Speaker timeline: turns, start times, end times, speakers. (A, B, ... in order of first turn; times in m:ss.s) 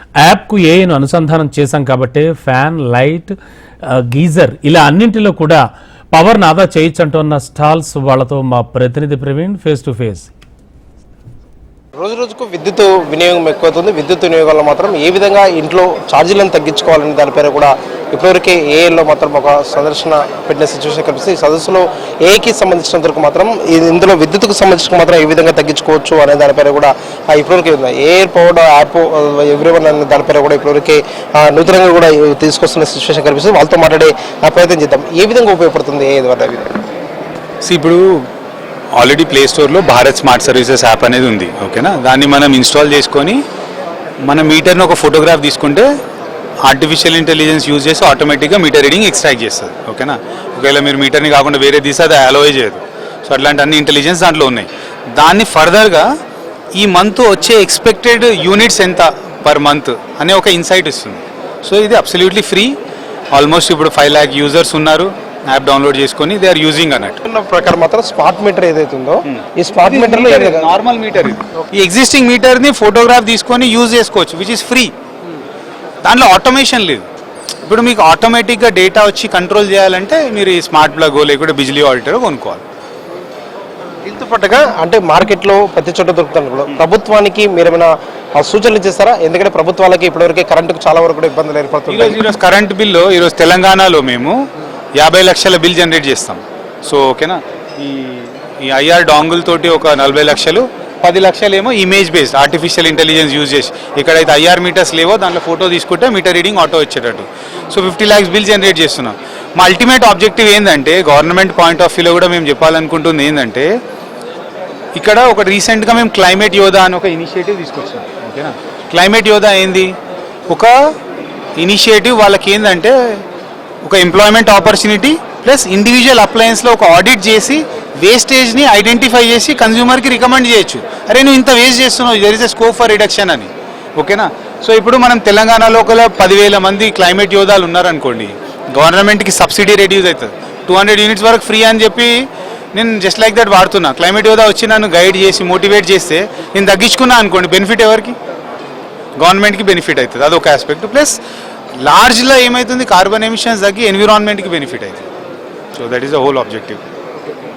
0:00.2-0:03.3 A
0:03.8-0:10.3 A
0:12.0-0:36.8 B
0:37.6-0:38.2 C
0:38.9-0:43.4 C
0:44.2-0:45.8 C
0:46.6-0:56.1 C
0:56.7-1:02.8 C
1:03.3-1:07.2 C
1:07.2-1:10.7 B
1:09.3-1:14.9 C
1:16.0-1:17.0 C
1:17.6-1:22.6 C
1:24.0-1:32.2 B
1:31.9-1:34.3 C
1:35.0-1:53.7 C
1:54.9-1:59.9 C
2:01.6-2:03.2 C
2:03.8-2:28.2 C
2:29.2-2:31.2 C
2:31.8-2:35.0 C
2:35.7-2:36.8 C